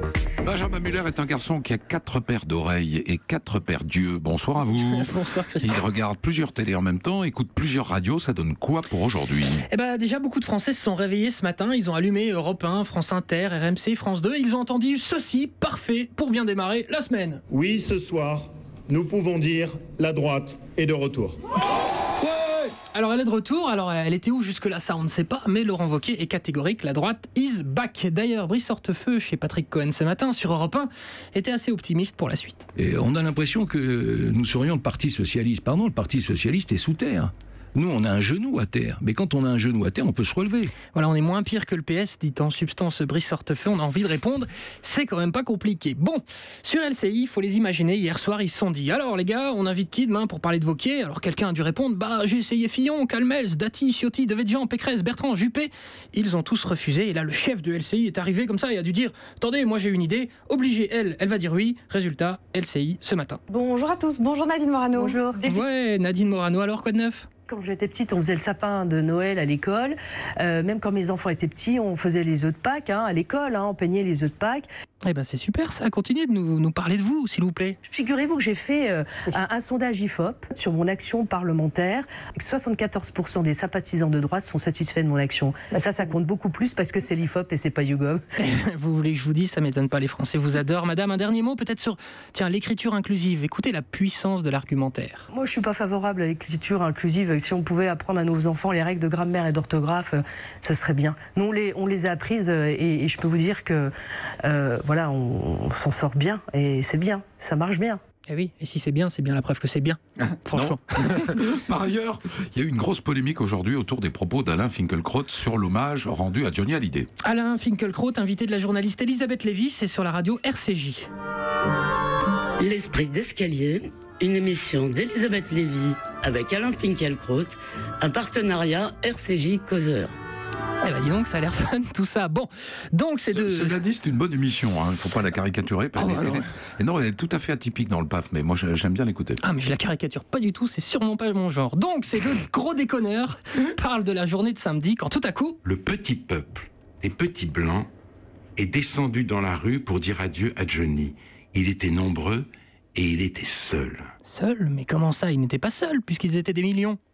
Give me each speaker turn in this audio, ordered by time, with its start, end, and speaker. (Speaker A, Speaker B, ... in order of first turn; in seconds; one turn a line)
Speaker A: 0.4-9.6
Speaker B: 4.8-5.8
Speaker B: 9.7-17.4
Speaker C: 17.5-21.4
Speaker B: 22.2-32.7
Speaker D: 33.0-40.7
Speaker B: 40.9-63.4
Speaker E: 63.5-65.6
Speaker B: 65.5-67.3
Speaker F: 67.5-74.7
Speaker B: 75.1-77.8
Speaker F: 77.8-88.2
Speaker B: 88.4-95.3
Speaker F: 95.3-103.9
Speaker F: 104.4-108.0
Speaker B: 108.3-110.8
Speaker A: 110.3-117.1
Speaker B: 117.2-121.1
Speaker G: 122.6-130.2
Speaker B: 130.8-133.8
Speaker A: 133.3-139.4
Speaker B: 136.0-136.4
Speaker B: 139.4-145.6
Speaker H: 145.6-147.9
Speaker H: 148.6-154.1
Speaker B: 154.2-157.0